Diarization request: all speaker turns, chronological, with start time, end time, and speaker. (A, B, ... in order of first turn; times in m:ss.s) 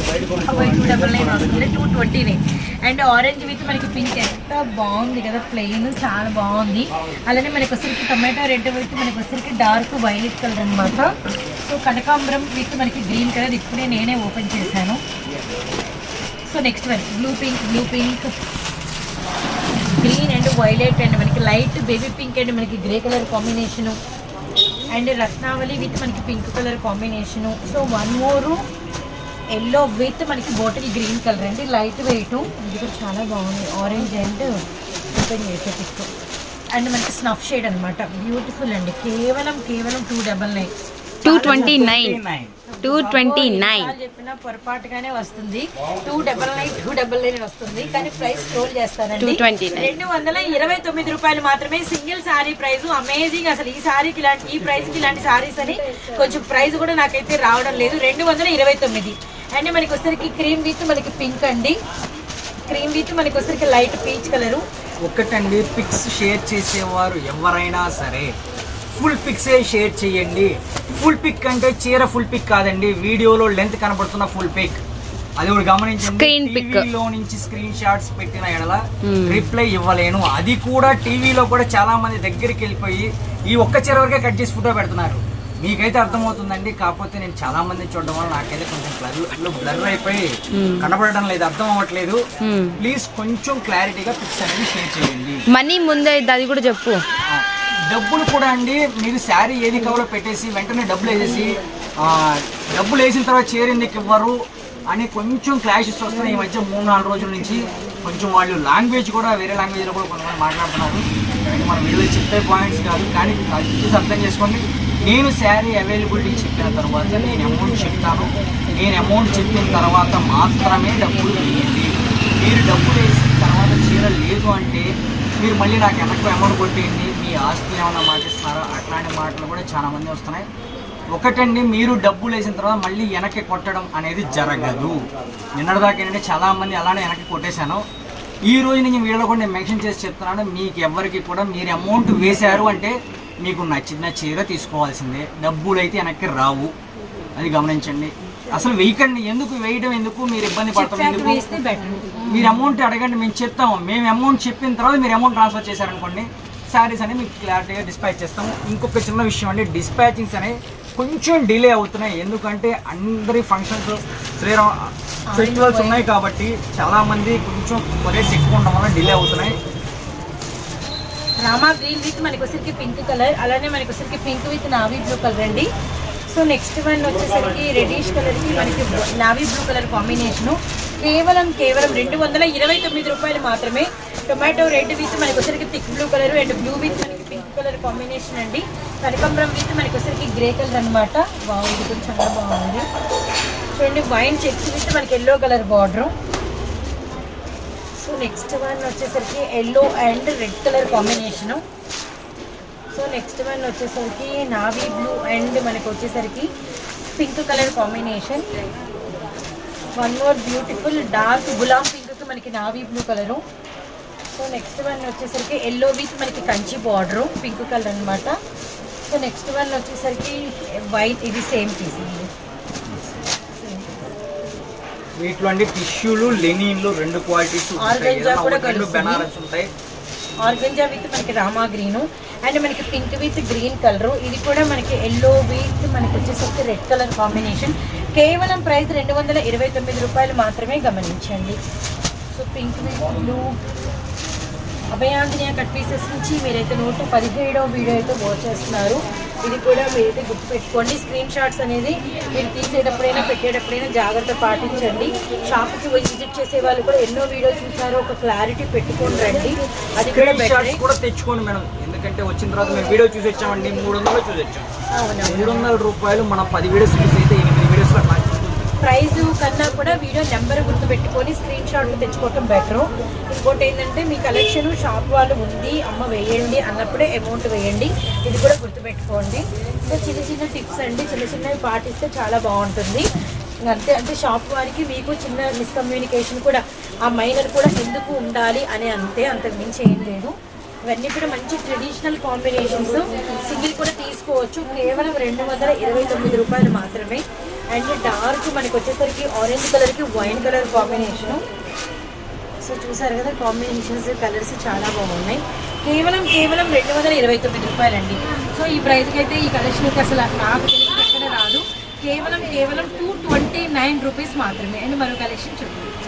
0:00.3-0:15.0 A
0:16.5-0:18.4 A
0:19.8-0:24.0 A
0:24.9-0:28.6 A
0:29.5-0:36.1 A
0:36.7-0:40.7 A
0:41.2-0:41.9 A
0:41.2-0:42.2 B
0:41.4-0:42.5 C
0:42.7-1:01.8 A
0:42.8-0:43.9 B
0:49.2-0:49.9 B
1:02.7-1:04.6 A
1:05.0-1:08.3 C
1:08.9-1:14.8 C
1:15.4-1:32.2 C
1:16.0-1:16.9 B
1:19.0-1:19.5 B
1:30.5-1:30.9 B
1:32.4-1:32.8 B
1:32.8-1:35.4 C
1:35.5-1:37.0 B
1:37.3-2:10.5 C
2:11.1-2:15.0 C
2:15.6-2:17.8 C
2:18.5-2:26.7 C
2:27.4-2:31.5 C
2:30.7-2:32.6 A
2:32.3-2:49.6 C
2:45.3-2:46.0 A
2:51.4-2:55.7 A
2:56.3-3:12.8 A
3:13.8-3:16.1 A
3:18.0-3:21.6 A
3:22.9-3:26.5 A
3:27.2-3:28.4 A
3:30.0-3:33.4 A
3:34.3-3:38.4 A
3:39.1-3:42.3 A
3:42.8-3:43.2 C
3:43.5-3:43.9 A
3:45.2-3:49.7 C
3:47.8-3:49.3 A
3:50.4-4:01.6 A
4:02.3-4:03.6 A
4:04.9-4:20.8 A
4:20.0-4:24.7 C
4:24.9-4:25.7 A
4:25.2-4:28.7 C
4:28.8-4:43.1 A
4:43.6-4:50.3 A
4:50.9-5:01.4 A
5:02.6-5:15.9 A